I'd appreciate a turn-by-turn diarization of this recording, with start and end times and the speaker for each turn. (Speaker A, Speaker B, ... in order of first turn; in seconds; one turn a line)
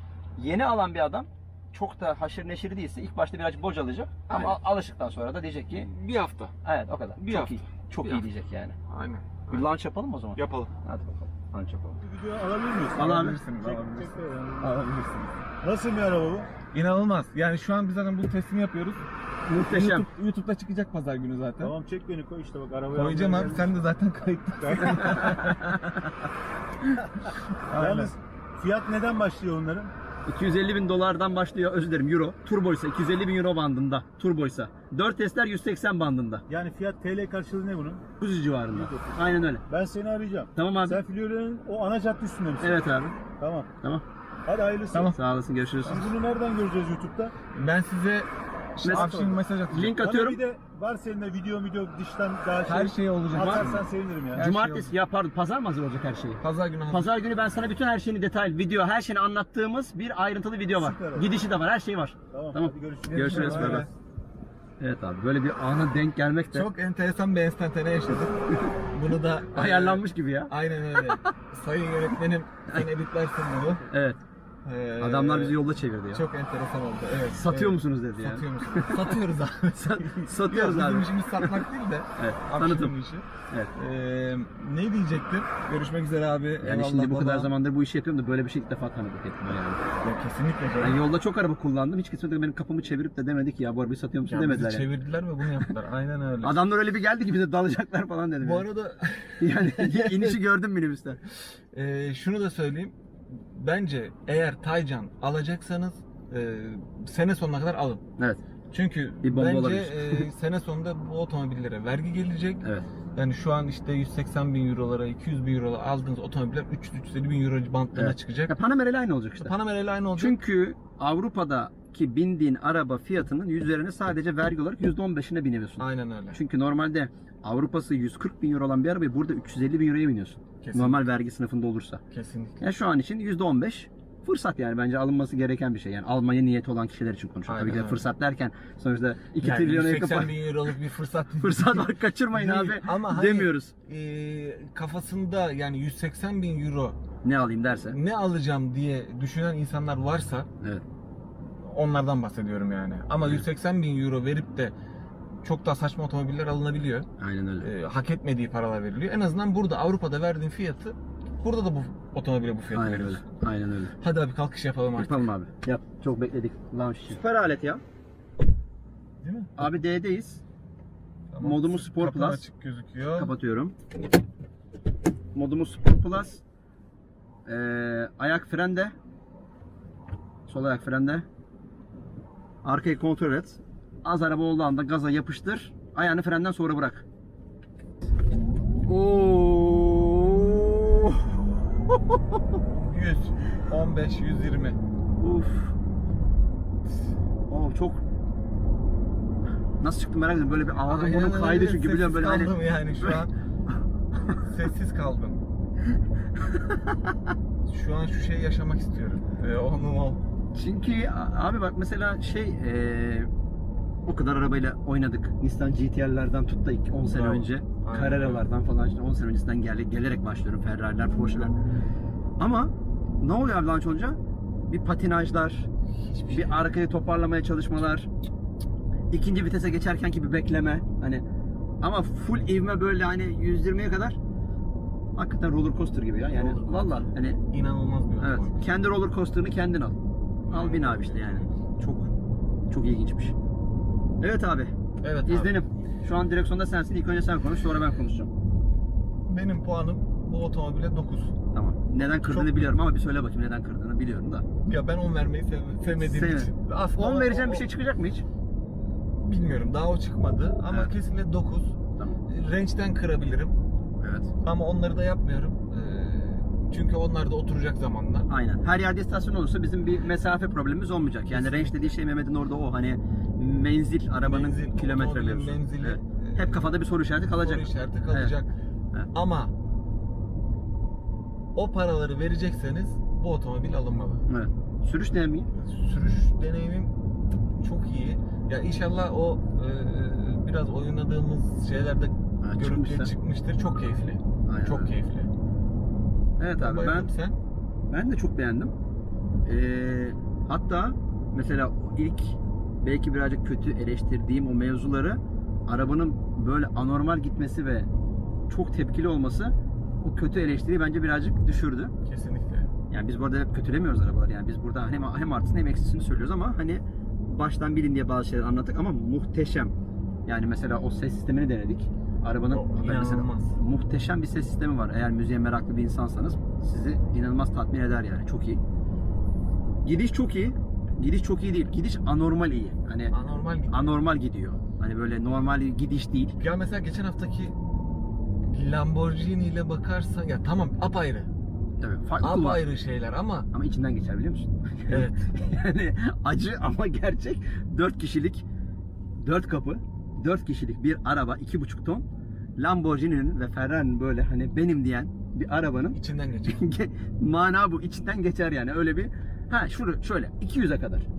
Speaker A: 0.4-5.9
Speaker B: 4.3-4.5
Speaker B: 5.7-6.5
Speaker A: 6.6-8.8
Speaker B: 7.2-8.2
Speaker B: 8.9-9.7
Speaker A: 9.5-12.0
Speaker B: 10.3-10.7
Speaker C: 12.0-14.8
Speaker A: 12.9-13.4
Speaker B: 12.9-15.3
Speaker C: 15.6-16.5
Speaker B: 16.7-19.1
Speaker A: 19.5-20.1
Speaker B: 19.6-21.7
Speaker C: 21.6-23.7
Speaker B: 22.9-26.1
Speaker C: 24.6-25.4
Speaker A: 24.8-25.8
Speaker B: 27.7-28.1
Speaker C: 27.7-29.9
Speaker A: 30.2-36.4
Speaker C: 36.5-38.0
Speaker A: 38.2-39.6
Speaker C: 38.7-43.7
Speaker A: 40.5-41.0
Speaker A: 42.6-43.1
Speaker C: 44.5-45.1
Speaker A: 45.1-46.1
Speaker C: 45.8-47.3
Speaker B: 47.5-50.0
Speaker A: 48.8-50.4
Speaker C: 48.9-54.5
Speaker B: 52.6-54.9
Speaker A: 53.4-53.7
Speaker A: 54.3-63.9
Speaker B: 56.4-57.2
Speaker C: 60.7-61.4
Speaker C: 62.3-63.9
Speaker B: 63.1-63.9
Speaker A: 64.8-66.7
Speaker B: 66.5-68.3
Speaker B: 68.9-73.9
Speaker A: 69.5-71.3
Speaker A: 73.9-74.2
Speaker B: 74.6-75.6
Speaker A: 75.0-76.2
Speaker B: 76.1-87.5
Speaker A: 77.3-79.2
Speaker A: 79.7-81.6
Speaker A: 82.2-82.9
Speaker A: 86.6-89.8
Speaker B: 90.0-91.0
Speaker A: 90.8-94.9
Speaker B: 94.3-96.6
Speaker A: 96.4-98.7
Speaker B: 98.4-100.4
Speaker A: 99.4-101.2
Speaker B: 101.7-108.0
Speaker B: 108.7-112.6
Speaker A: 109.2-110.2
Speaker A: 112.6-112.9
Speaker B: 113.1-118.5
Speaker A: 117.9-119.5
Speaker B: 119.4-120.4
Speaker A: 120.2-132.0
Speaker B: 125.8-126.4
Speaker B: 130.6-131.0
Speaker B: 132.1-132.6
Speaker A: 132.6-140.3
Speaker B: 137.5-138.0
Speaker B: 139.4-147.0
Speaker A: 141.4-143.7
Speaker A: 147.2-148.0
Speaker B: 147.9-150.5
Speaker B: 151.6-154.7
Speaker B: 155.4-157.1
Speaker A: 157.2-157.7
Speaker B: 157.6-163.2
Speaker A: 162.7-163.9
Speaker B: 164.0-165.3
Speaker A: 165.0-167.8
Speaker B: 169.2-169.5
Speaker A: 169.6-170.4
Speaker B: 171.3-173.3
Speaker A: 171.4-172.4
Speaker A: 173.2-173.7
Speaker A: 175.3-176.4
Speaker A: 177.4-178.9
Speaker A: 180.5-181.2
Speaker A: 182.6-187.0
Speaker A: 188.8-192.2
Speaker B: 192.8-194.8
Speaker A: 195.2-195.7
Speaker A: 197.5-198.0
Speaker A: 199.8-203.2
Speaker B: 200.9-203.3
Speaker A: 204.2-204.4
Speaker B: 204.3-205.4
Speaker A: 206.6-206.9
Speaker B: 207.7-210.2
Speaker A: 210.5-213.3
Speaker A: 214.1-221.6
Speaker B: 217.1-218.4
Speaker A: 222.4-224.2
Speaker A: 224.7-225.7
Speaker B: 226.0-226.7
Speaker A: 226.3-228.1
Speaker A: 229.1-231.2
Speaker A: 231.8-234.2
Speaker A: 235.1-237.4
Speaker B: 236.3-238.6
Speaker A: 238.2-242.1
Speaker B: 240.4-241.5
Speaker A: 242.7-243.3
Speaker A: 244.2-244.7
Speaker B: 245.0-245.6
Speaker A: 245.2-248.3
Speaker B: 249.2-251.3
Speaker A: 251.5-254.4
Speaker B: 252.0-252.7
Speaker B: 254.6-257.6
Speaker A: 256.0-258.2
Speaker B: 259.1-261.8
Speaker B: 262.3-263.6
Speaker A: 264.0-264.3
Speaker B: 264.4-268.3
Speaker A: 268.3-278.3
Speaker B: 271.3-271.9
Speaker B: 274.2-276.6
Speaker B: 277.4-278.5
Speaker B: 279.1-279.5
Speaker B: 281.5-284.2
Speaker A: 284.3-285.5
Speaker B: 285.5-286.9
Speaker B: 287.6-295.3
Speaker A: 292.4-293.1
Speaker A: 294.5-294.9
Speaker A: 296.4-297.1
Speaker B: 296.6-297.4
Speaker A: 297.9-298.7
Speaker A: 299.4-307.9
Speaker A: 308.5-311.9
Speaker B: 312.0-312.7
Speaker A: 312.9-319.7
Speaker A: 320.2-328.6
Speaker B: 322.5-323.6
Speaker A: 329.8-333.1
Speaker B: 333.1-333.9
Speaker A: 333.7-336.4
Speaker B: 336.4-337.6
Speaker B: 338.4-341.3
Speaker A: 341.8-342.6
Speaker B: 342.2-343.5
Speaker A: 343.5-348.4
Speaker B: 344.9-345.3
Speaker A: 349.2-352.1
Speaker A: 352.6-361.1
Speaker B: 355.9-356.6